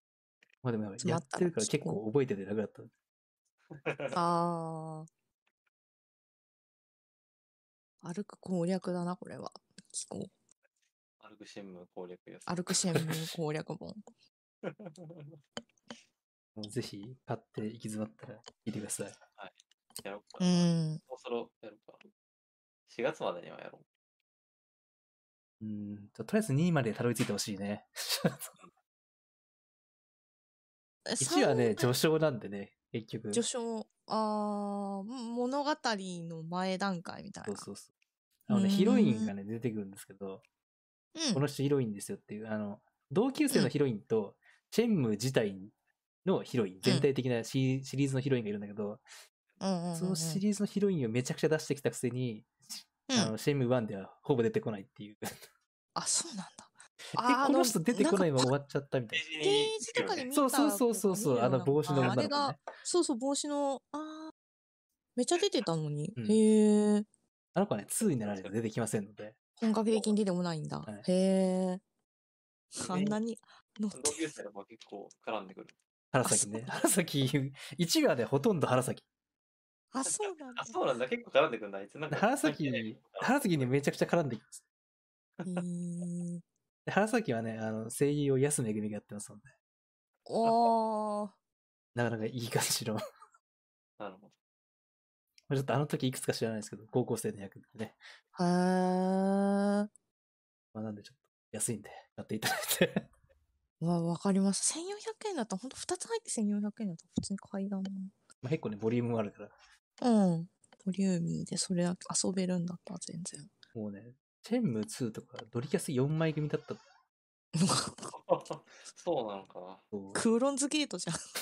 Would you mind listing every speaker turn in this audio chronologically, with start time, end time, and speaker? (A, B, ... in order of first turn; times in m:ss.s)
0:00.6-0:02.9 A
0:01.0-0:02.0 B
0:03.7-0:04.2 C
0:04.1-0:05.1 B
0:08.0-0:10.3 B
0:11.2-0:13.0 C
0:12.5-0:14.0 B
0:14.6-0:15.4 C
0:16.6-0:19.2 A
0:19.4-0:22.0 C
0:20.4-0:21.0 B
0:22.9-0:23.8 C
0:25.6-0:28.5 A
0:31.1-0:31.9 B
0:31.2-0:33.4 A
0:33.3-0:37.7 B
0:37.4-0:37.9 A
0:38.5-0:40.4 A
0:38.5-0:39.3 B
0:41.1-0:41.4 B
0:41.3-0:45.7 A
0:46.2-0:49.0 A
0:49.6-0:50.4 B
0:50.0-0:55.3 A
0:53.1-0:53.3 B
0:56.0-0:58.5 B
0:57.1-0:59.2 A
0:59.1-1:00.3 C
0:59.4-1:04.3 B
1:00.3-1:02.6 A
1:05.2-1:07.0 B
1:07.6-1:09.4 A
1:08.0-1:08.5 C
1:09.6-1:11.8 B
1:12.8-1:14.2 B
1:12.9-1:13.2 C
1:13.9-1:15.7 C
1:16.1-1:19.0 A
1:16.2-1:16.8 B
1:19.9-1:20.8 B
1:20.0-1:23.7 C
1:22.1-1:24.6 A
1:25.4-1:26.4 B
1:26.8-1:29.5 A
1:30.3-1:31.3 B
1:30.4-1:30.7 C
1:31.9-1:33.0 A
1:34.0-1:34.3 C
1:35.5-1:38.0 A
1:38.3-1:39.9 B
1:40.7-1:43.1 A
1:43.8-1:48.1 B
1:48.4-1:49.5 A
1:50.0-1:53.5 B
1:53.7-1:56.8 A
1:57.6-1:58.1 B
1:58.1-1:59.8 C
1:59.9-2:00.2 A
2:00.1-2:01.2 B